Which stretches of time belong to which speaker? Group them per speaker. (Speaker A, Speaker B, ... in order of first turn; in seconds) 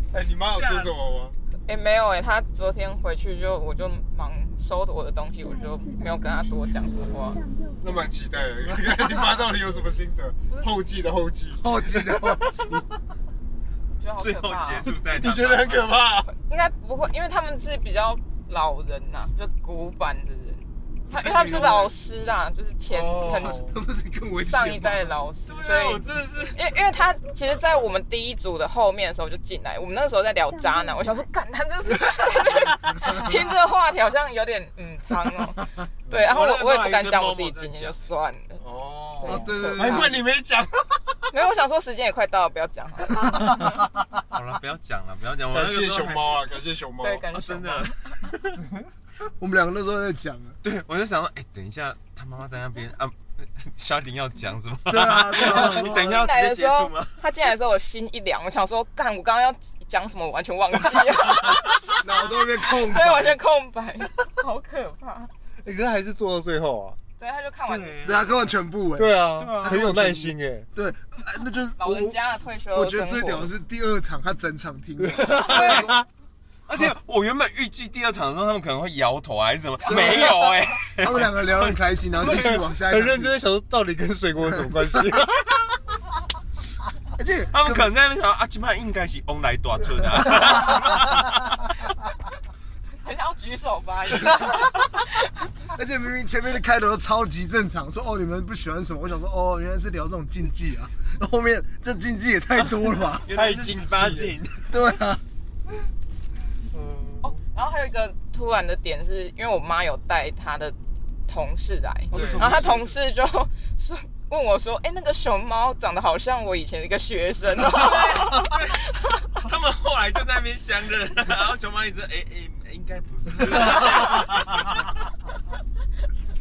Speaker A: 0.1-1.3, 7.8-12.7, 14.8-16.3, 22.9-23.7, 38.6-41.3, 45.5-47.3, 65.6-67.0, 69.0-70.7, 75.0-76.0, 82.1-85.6, 103.3-104.4, 106.7-107.4, 112.1-112.7
Speaker B: 0.5-1.0, 14.2-15.8, 25.4-26.7, 36.1-38.1, 44.3-46.4, 47.3-48.6, 50.6-57.5, 61.3-62.0, 67.7-68.5, 69.4-70.0, 75.5-76.0, 76.7-81.8, 87.5-91.6, 103.2-104.7, 117.7-118.9, 119.4-124.8
Speaker C: 1.6-7.3, 14.0-14.9, 15.7-23.4, 24.5-38.6, 39.2-40.1, 41.3-43.2, 47.0-48.2, 55.9-61.5, 62.2-65.3, 67.2-68.0, 71.8-73.5, 93.0-95.4, 107.3-110.8, 111.3-119.5
Speaker D: 5.2-8.1, 30.2-33.2
Speaker E: 11.5-12.8, 21.1-21.9, 23.2-25.3, 39.2-40.2, 43.1-43.5, 49.4-50.6, 54.9-56.3, 62.0-63.4, 68.0-76.0, 79.8-83.4, 84.5-85.1, 87.2-87.9, 94.1-94.5, 95.7-103.3, 104.7-105.2, 112.1-113.0